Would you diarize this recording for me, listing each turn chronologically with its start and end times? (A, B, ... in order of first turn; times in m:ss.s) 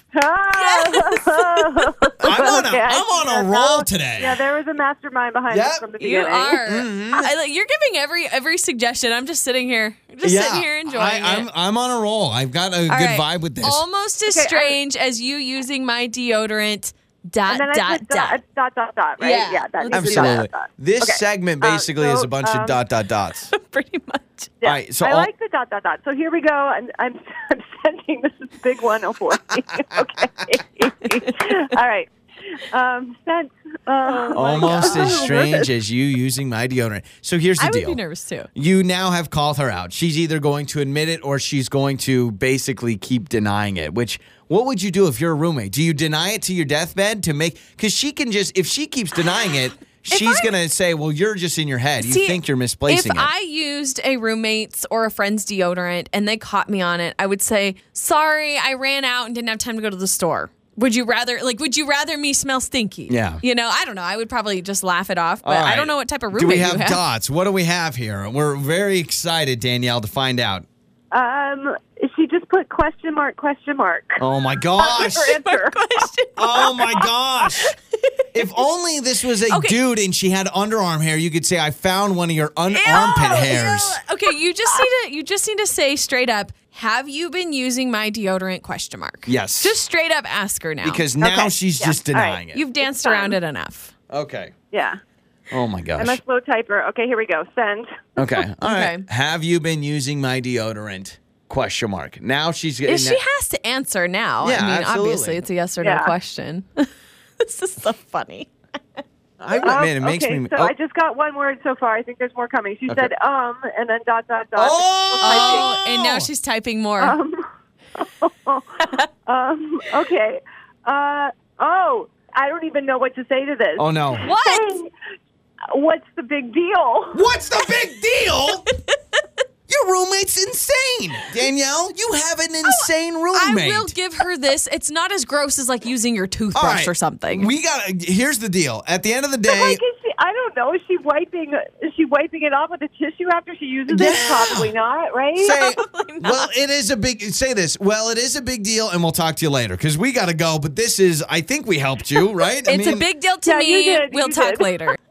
0:00.1-0:06.6 A
0:00.5-0:02.1 B
0:02.2-0:04.4 C
0:05.5-0:05.9 C
0:06.0-0:11.5 B
0:06.6-0:07.3 C
0:10.2-0:13.8 C
0:12.9-0:18.4 B
0:14.3-0:14.8 A
0:17.5-0:22.8 A
0:19.2-0:20.4 B
0:19.9-0:23.5 C
0:23.5-0:24.5 B
0:24.6-0:35.7 A
0:24.6-0:25.3 C
0:31.1-0:31.5 B
0:34.0-0:35.3 B
0:34.3-0:38.0 C
0:37.6-0:38.5 B
0:38.6-0:53.3 C
0:50.1-0:50.5 B
0:52.0-1:07.0 B
1:03.1-1:03.4 C
1:05.4-1:10.7 C
1:11.1-1:14.2 A
1:14.2-1:15.4 C
1:14.8-1:15.8 A
1:14.8-1:16.8 B
1:16.4-1:17.7 C
1:18.3-1:24.0 C
1:19.5-1:19.8 B
1:22.7-1:31.1 B
1:29.2-1:29.8 C
1:30.8-1:32.6 C
1:31.2-1:33.4 A
1:32.5-1:33.9 B
1:34.1-1:34.5 C
1:34.7-1:35.0 A
1:35.5-1:36.2 C
1:36.0-1:37.9 A
1:38.2-1:43.2 C
1:38.6-1:39.0 B
1:42.9-1:46.9 B
1:44.4-1:45.4 C
1:45.8-1:46.1 A
1:47.4-1:49.0 B
1:49.4-1:50.7 C
1:49.6-1:56.1 A
1:54.6-1:56.2 C
1:55.2-1:57.2 B
1:57.0-2:04.9 A
2:03.8-2:04.3 C
2:04.2-2:04.6 B
2:05.7-2:07.2 A
2:07.1-2:08.7 C
2:09.7-2:13.9 C
2:12.6-2:17.5 B
2:16.5-2:19.8 C
2:19.5-2:25.6 A
2:23.9-2:24.7 C
2:25.4-2:33.1 C
2:25.4-2:26.5 B
2:32.6-2:35.0 B
2:33.4-2:34.7 A